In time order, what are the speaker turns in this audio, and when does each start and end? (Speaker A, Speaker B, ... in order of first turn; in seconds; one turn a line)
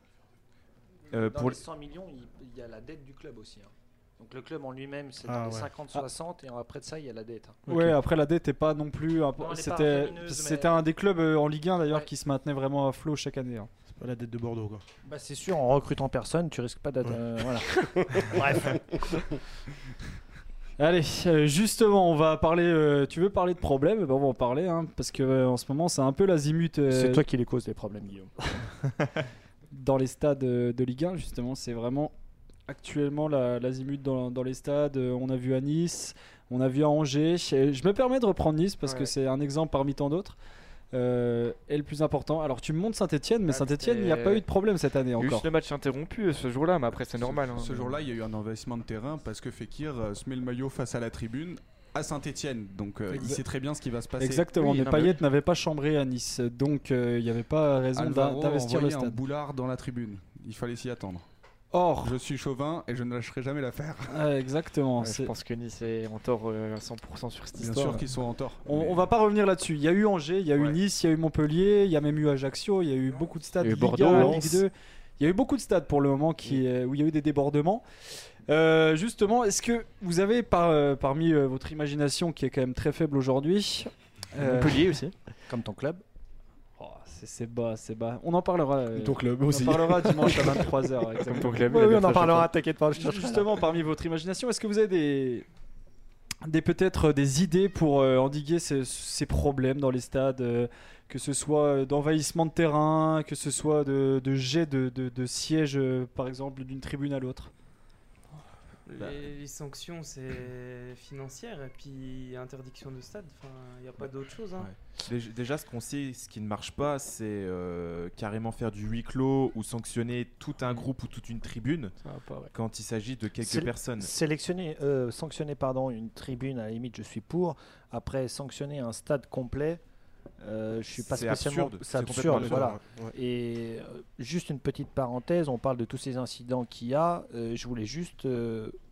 Speaker A: 1.1-1.6
Speaker B: 1.3-7.6
Speaker C: 5.2-5.7
Speaker D: 7.7-13.7
Speaker B: 9.4-10.8
Speaker C: 13.9-14.8
Speaker B: 15.0-18.8
Speaker C: 17.9-18.4
Speaker D: 20.8-27.2
Speaker B: 26.9-28.5
Speaker D: 29.7-32.1
Speaker D: 32.7-40.4
Speaker E: 38.8-39.1
Speaker D: 40.9-45.5
Speaker E: 43.5-44.4
Speaker E: 45.2-48.0
Speaker F: 47.1-54.5
Speaker D: 54.2-59.2
Speaker E: 54.5-55.2
Speaker F: 57.9-61.2
Speaker D: 61.7-62.1
Speaker F: 62.0-64.2
Speaker D: 64.1-65.3
Speaker E: 65.0-68.1
Speaker F: 67.5-69.1
Speaker D: 68.7-77.8
Speaker E: 73.6-74.5
Speaker C: 74.0-74.6
Speaker D: 78.5-84.8
Speaker E: 84.4-85.1
Speaker B: 85.5-86.0
Speaker D: 86.8-91.7
Speaker C: 88.9-90.7
Speaker E: 91.3-92.5
Speaker B: 91.6-93.5
Speaker D: 92.9-95.5
Speaker D: 96.4-107.5
Speaker G: 108.8-114.7
Speaker A: 115.0-121.9
Speaker E: 122.0-122.5
Speaker A: 122.5-124.1
Speaker B: 123.4-129.8
Speaker B: 130.4-138.8
Speaker A: 131.0-132.8
Speaker C: 132.3-133.1